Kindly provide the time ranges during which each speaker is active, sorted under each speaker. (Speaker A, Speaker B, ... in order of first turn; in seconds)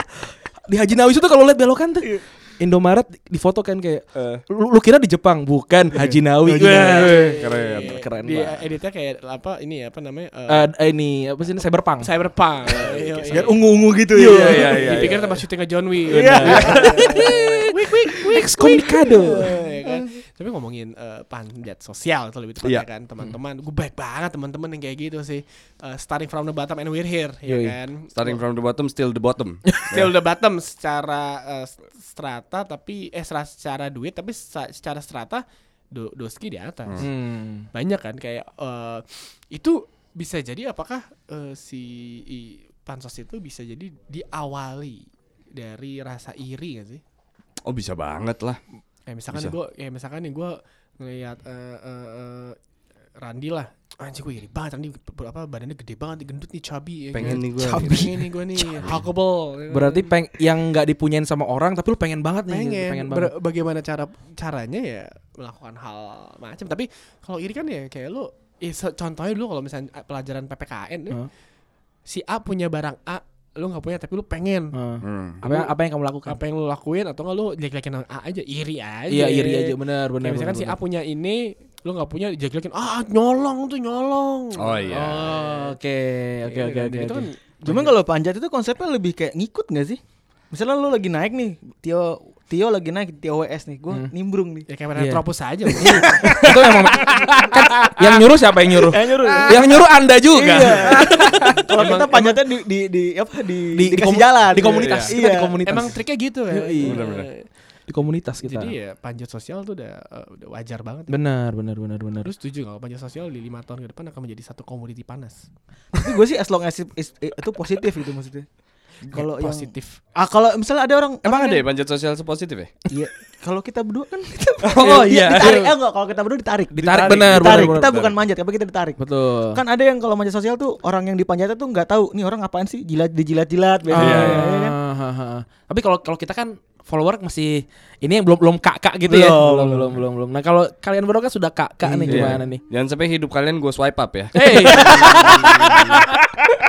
Speaker A: 0.7-8.6, 10.5-12.1, 14.1-15.1, 16.1-17.6, 18.2-19.6, 27.5-27.8, 37.0-37.6, 57.2-58.9, 59.7-63.3, 74.7-76.4, 79.1-80.8, 84.9-87.7, 95.0-95.2, 95.8-101.3, 103.7-106.0, 106.5-107.0, 107.9-108.7, 111.1-112.3, 126.7-127.9, 129.0-129.6, 133.9-142.6, 144.3-146.2
Speaker B: 4.1-4.4, 6.8-7.9, 12.8-13.5, 14.2-15.3, 28.1-30.1, 47.6-48.6, 57.1-58.1, 75.0-75.4, 84.5-85.3, 101.0-101.5, 104.6-105.1, 106.8-107.3, 121.2-122.7, 124.6-125.7, 126.9-128.2, 134.0-134.5, 142.1-146.0
Speaker C: 5.9-7.2, 13.3-15.1, 16.1-17.4, 19.1-20.0, 87.6-90.0, 90.5-94.7, 95.8-96.6, 98.8-105.9, 115.9-118.5, 119.1-121.6, 122.9-134.8, 139.1-140.0, 141.8-142.4
Speaker D: 7.1-10.7, 12.0-13.5, 14.8-28.4, 29.9-37.1, 37.7-47.0, 49.1-52.6, 53.2-60.2, 62.5-71.2, 72.0-74.8, 75.4-75.7, 76.2-85.7, 86.4-87.9, 94.7-96.2, 101.0-102.4, 105.6-107.5, 108.4-111.2, 112.2-115.5, 119.1-120.0, 144.4-145.5